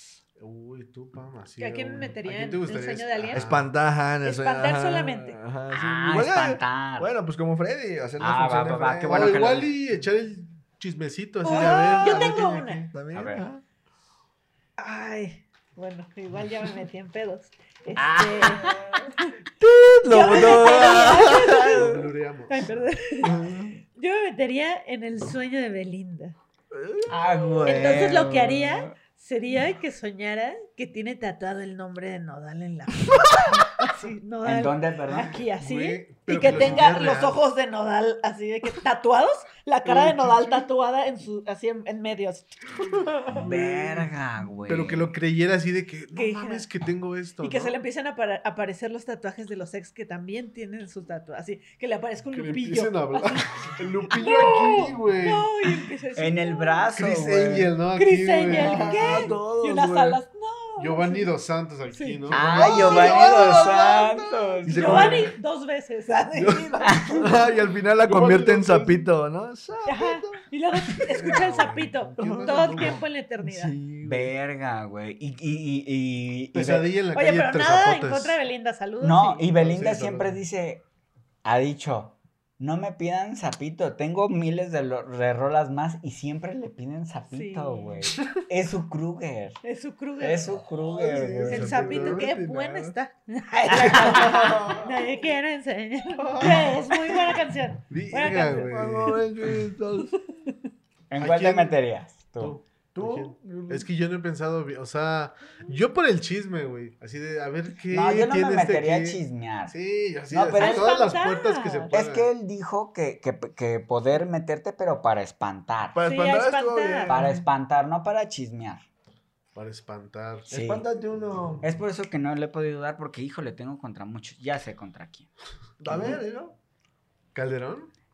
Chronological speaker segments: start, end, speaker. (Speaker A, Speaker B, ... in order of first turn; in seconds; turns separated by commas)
Speaker A: 0.4-3.7, Speaker B: 1.6-3.5, Speaker C: 3.3-9.4, Speaker B: 4.2-5.4, Speaker D: 5.7-7.1, Speaker D: 8.2-9.7, Speaker A: 9.1-12.8, Speaker B: 11.4-12.9, Speaker C: 11.6-13.6, Speaker D: 13.1-13.4, Speaker B: 14.8-19.2, Speaker D: 18.0-18.9, Speaker C: 19.6-22.1, Speaker B: 20.1-26.4, Speaker A: 21.0-22.7, Speaker C: 23.2-23.8, Speaker C: 26.7-27.7, Speaker D: 27.1-28.9, Speaker B: 27.6-42.6, Speaker D: 34.4-35.4, Speaker A: 35.5-37.4, Speaker D: 36.5-36.9, Speaker A: 39.9-40.6, Speaker A: 43.3-44.1, Speaker D: 43.3-45.1, Speaker A: 44.7-47.8, Speaker B: 46.1-46.6, Speaker B: 47.4-53.5, Speaker A: 52.3-55.5, Speaker B: 54.1-56.9, Speaker D: 56.2-57.8, Speaker A: 57.0-59.3, Speaker B: 58.0-61.3, Speaker C: 58.5-60.2, Speaker D: 58.5-59.0, Speaker A: 60.8-64.0, Speaker B: 61.9-64.0, Speaker D: 62.3-65.2, Speaker C: 62.6-63.0, Speaker C: 64.6-65.3, Speaker B: 64.7-67.2, Speaker C: 66.4-70.4, Speaker D: 66.8-67.3, Speaker A: 68.0-69.1, Speaker B: 69.9-73.8, Speaker A: 71.0-73.0, Speaker C: 72.2-74.3, Speaker D: 74.0-76.9, Speaker A: 76.5-78.4, Speaker B: 77.1-79.5, Speaker D: 79.0-80.8, Speaker A: 79.5-80.3, Speaker D: 81.4-89.6, Speaker B: 87.3-88.0, Speaker B: 89.6-90.5, Speaker D: 90.2-91.7, Speaker C: 90.9-92.9, Speaker A: 91.4-92.3, Speaker B: 91.4-99.2, Speaker D: 93.7-94.5, Speaker C: 93.7-95.1, Speaker C: 96.2-97.4, Speaker A: 97.9-99.2, Speaker C: 98.4-100.1, Speaker B: 100.3-100.6, Speaker D: 101.1-102.6, Speaker A: 101.2-101.7, Speaker A: 102.4-112.3, Speaker C: 103.0-103.9, Speaker D: 107.9-109.8, Speaker D: 110.3-110.9, Speaker B: 110.5-111.9, Speaker D: 111.9-116.0, Speaker C: 116.0-117.5, Speaker B: 116.0-117.2, Speaker D: 117.1-118.8, Speaker A: 119.5-120.5, Speaker C: 120.5-121.7, Speaker D: 120.5-120.8, Speaker D: 121.6-125.3, Speaker C: 125.8-126.6, Speaker A: 125.9-126.2, Speaker A: 127.3-127.9